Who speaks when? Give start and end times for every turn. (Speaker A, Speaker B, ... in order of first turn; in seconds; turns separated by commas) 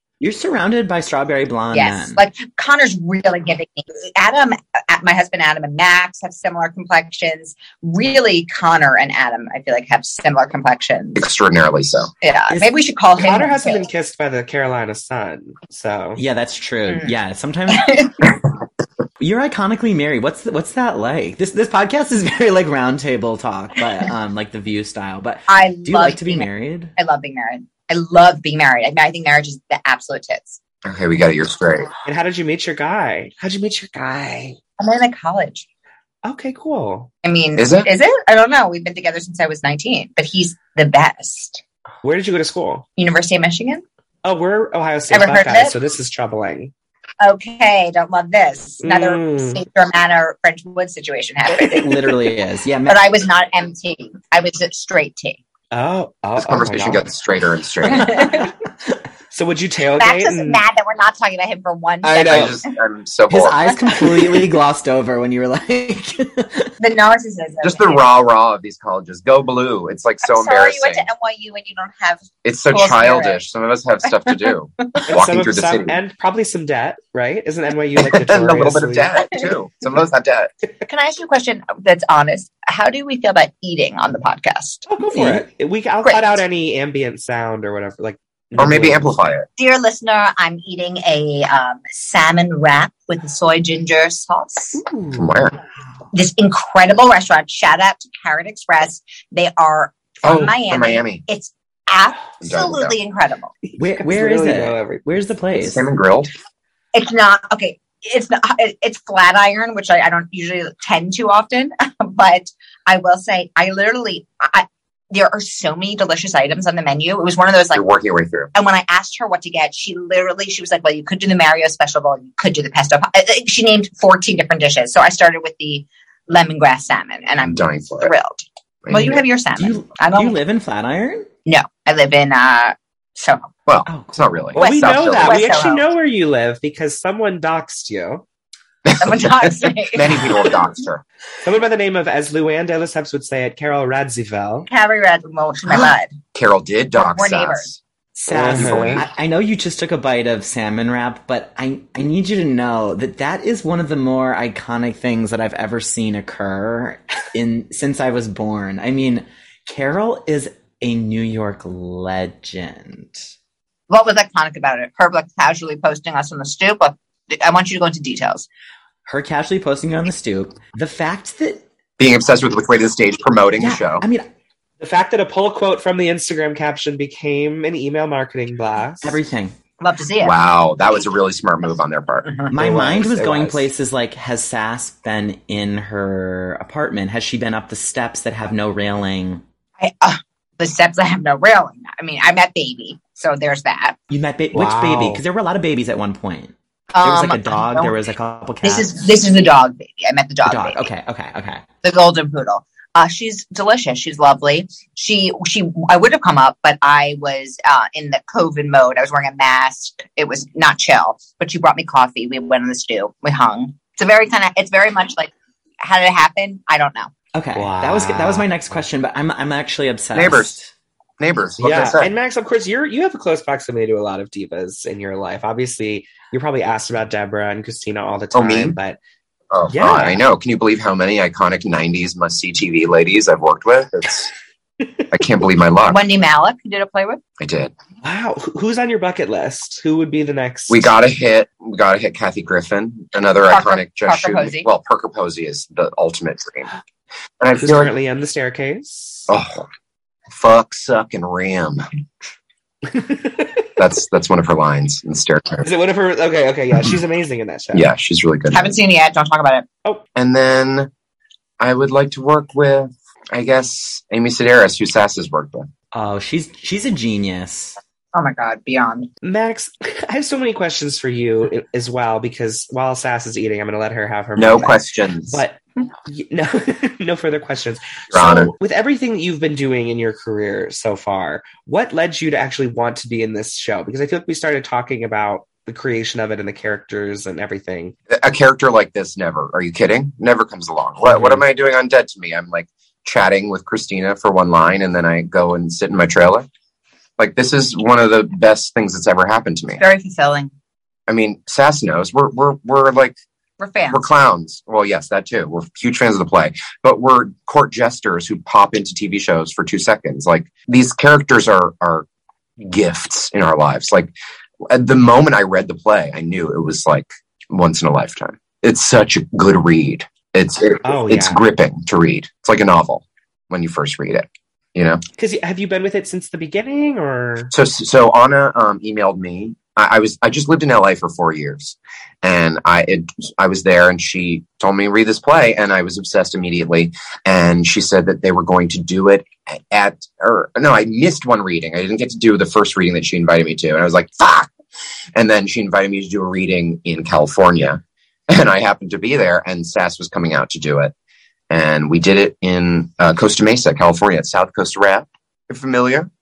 Speaker A: 0.2-2.2, Speaker B: 1.7-11.2, Speaker C: 11.2-12.1, Speaker B: 12.2-13.9, Speaker D: 13.2-16.2, Speaker A: 16.2-18.0, Speaker B: 17.7-18.1, Speaker A: 19.2-26.9, Speaker B: 25.5-30.6, Speaker C: 30.9-31.9, Speaker D: 32.0-34.6, Speaker B: 34.8-35.6, Speaker D: 36.2-37.1, Speaker B: 37.2-41.6, Speaker C: 37.6-37.9, Speaker D: 42.0-42.9, Speaker B: 43.0-43.8, Speaker D: 44.2-46.7, Speaker B: 45.1-45.8, Speaker B: 47.2-52.2, Speaker D: 48.8-49.6, Speaker A: 51.5-53.1, Speaker B: 52.9-55.4, Speaker D: 55.7-57.1, Speaker C: 56.4-58.5, Speaker B: 57.9-58.5, Speaker D: 59.3-60.6, Speaker B: 60.0-62.7, Speaker D: 62.0-62.5, Speaker C: 62.3-63.7, Speaker A: 63.3-66.7, Speaker B: 66.8-68.0, Speaker C: 67.6-71.0, Speaker B: 70.2-73.4, Speaker C: 72.4-76.0, Speaker B: 74.1-75.0, Speaker D: 75.1-79.1, Speaker C: 78.0-80.5, Speaker B: 80.8-84.9, Speaker D: 84.9-89.1, Speaker A: 85.1-85.5, Speaker B: 86.0-86.4, Speaker C: 88.6-89.5, Speaker B: 89.6-94.8, Speaker D: 94.8-95.3, Speaker C: 95.1-95.6, Speaker B: 96.1-103.5, Speaker C: 100.2-101.2, Speaker C: 102.4-103.0, Speaker D: 103.6-105.1, Speaker A: 103.8-105.9, Speaker C: 105.6-106.3, Speaker B: 106.9-117.8, Speaker C: 117.7-118.5, Speaker B: 118.5-130.4, Speaker C: 127.4-128.1, Speaker C: 128.8-129.2, Speaker A: 129.6-131.3, Speaker B: 131.5-133.5, Speaker C: 133.7-135.6, Speaker A: 133.9-134.3, Speaker D: 134.6-138.2, Speaker B: 134.6-135.9, Speaker C: 138.9-141.0, Speaker B: 139.0-140.5, Speaker D: 141.4-144.7, Speaker B: 144.7-146.1, Speaker C: 146.3-147.8, Speaker B: 146.9-147.7, Speaker A: 148.2-163.3, Speaker D: 148.3-149.1, Speaker C: 148.3-149.1, Speaker B: 163.9-168.5, Speaker A: 169.1-171.7, Speaker C: 172.0-174.1, Speaker A: 173.6-174.3, Speaker D: 174.8-179.2, Speaker A: 179.0-179.6, Speaker B: 179.8-180.3, Speaker C: 180.2-182.3, Speaker A: 182.5-189.4, Speaker D: 182.5-183.7, Speaker B: 189.8-194.0, Speaker A: 194.1-198.9, Speaker D: 194.5-195.2, Speaker B: 196.9-197.9, Speaker B: 198.6-200.9, Speaker A: 200.5-201.6, Speaker B: 201.8-217.1, Speaker A: 217.3-220.7, Speaker D: 217.6-218.5, Speaker C: 220.2-220.6, Speaker C: 221.2-222.1, Speaker D: 221.6-229.0, Speaker C: 228.3-228.8, Speaker C: 229.5-234.3, Speaker D: 229.7-230.2, Speaker C: 235.1-236.0, Speaker B: 235.9-237.2, Speaker C: 237.4-237.7, Speaker D: 238.0-240.9, Speaker C: 240.7-246.7, Speaker B: 243.5-244.7, Speaker C: 247.4-247.9, Speaker D: 247.6-249.3, Speaker C: 249.3-249.7, Speaker C: 250.3-251.8, Speaker D: 252.9-253.6, Speaker C: 253.8-255.7, Speaker D: 255.6-257.9, Speaker C: 257.7-258.8, Speaker B: 258.5-259.7, Speaker C: 260.1-260.9, Speaker C: 261.6-265.7, Speaker A: 265.9-267.8, Speaker B: 268.1-269.1, Speaker D: 269.2-287.9, Speaker C: 274.4-275.4, Speaker C: 278.1-278.5, Speaker C: 288.1-296.5, Speaker C: 297.2-299.8, Speaker B: 299.8-300.5, Speaker C: 301.1-303.2, Speaker B: 303.6-304.0, Speaker C: 303.9-312.1, Speaker C: 312.6-314.1, Speaker C: 314.7-325.0, Speaker D: 320.9-321.4, Speaker D: 325.2-327.5, Speaker C: 327.5-344.5, Speaker C: 345.1-350.9, Speaker C: 351.5-356.1